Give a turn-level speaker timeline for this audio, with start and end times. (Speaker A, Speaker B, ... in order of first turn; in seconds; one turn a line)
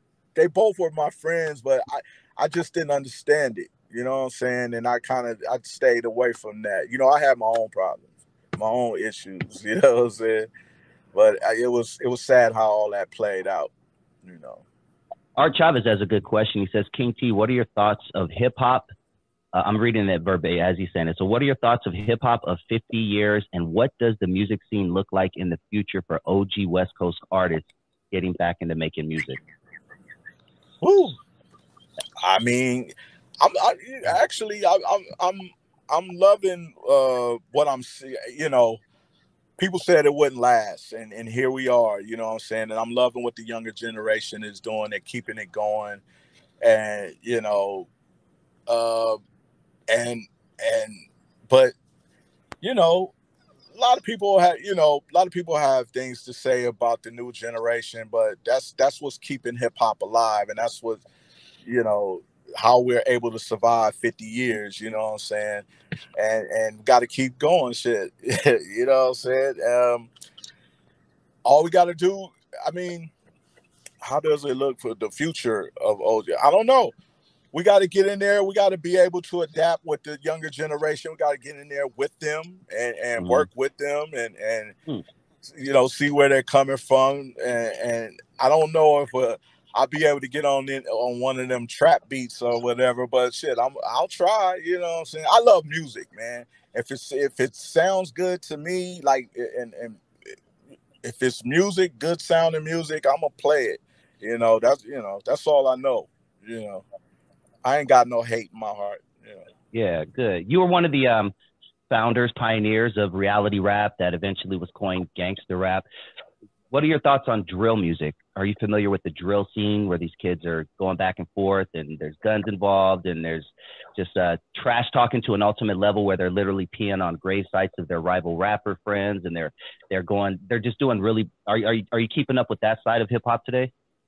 Speaker A: 0.3-10.5
Speaker A: 11.1-13.7
Speaker A: 14.2-14.6
Speaker B: 15.4-18.9
Speaker B: 19.5-29.4
Speaker A: 30.8-31.1
Speaker A: 32.2-38.8
Speaker A: 39.6-46.0
Speaker A: 46.6-47.9
Speaker A: 48.7-49.2
Speaker A: 49.9-51.7
Speaker A: 52.6-53.1
Speaker A: 53.7-61.0
Speaker A: 61.6-65.7
Speaker A: 66.2-70.1
Speaker A: 71.4-73.1
Speaker A: 74.0-76.9
Speaker A: 77.5-84.7
Speaker B: 83.2-83.5
Speaker A: 85.5-100.0
Speaker A: 101.0-106.8
Speaker A: 107.6-109.4
Speaker B: 109.7-111.3
Speaker B: 111.9-115.8
Speaker B: 116.7-133.7